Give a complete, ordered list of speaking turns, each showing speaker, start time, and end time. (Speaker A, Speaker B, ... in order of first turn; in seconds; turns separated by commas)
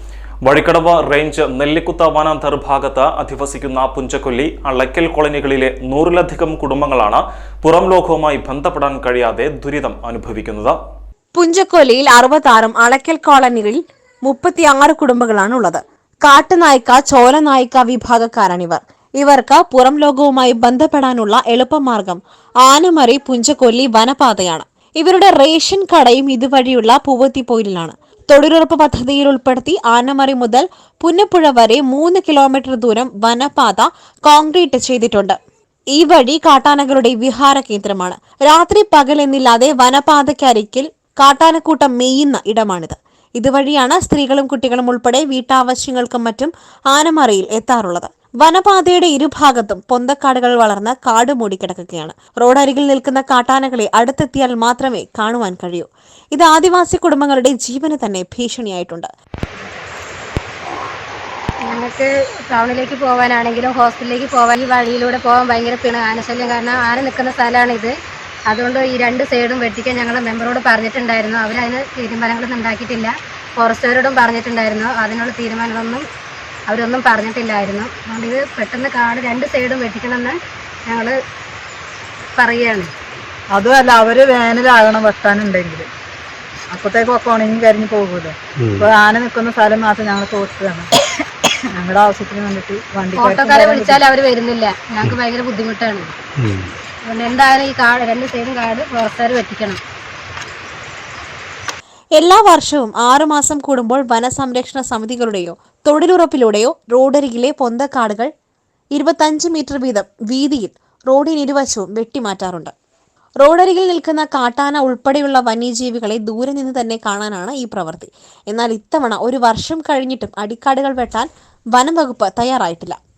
Speaker A: 0.4-10.8, Speaker B: 11.3-35.4, Speaker B: 35.9-59.1, Speaker C: 61.7-67.9, Speaker C: 68.5-76.0, Speaker C: 76.7-80.4, Speaker C: 80.9-81.2, Speaker C: 82.3-82.9, Speaker D: 83.5-85.9, Speaker D: 86.7-90.9, Speaker D: 91.7-94.0, Speaker C: 93.2-96.1, Speaker C: 97.1-99.8, Speaker B: 102.2-108.3, Speaker B: 109.0-112.7, Speaker B: 113.4-123.0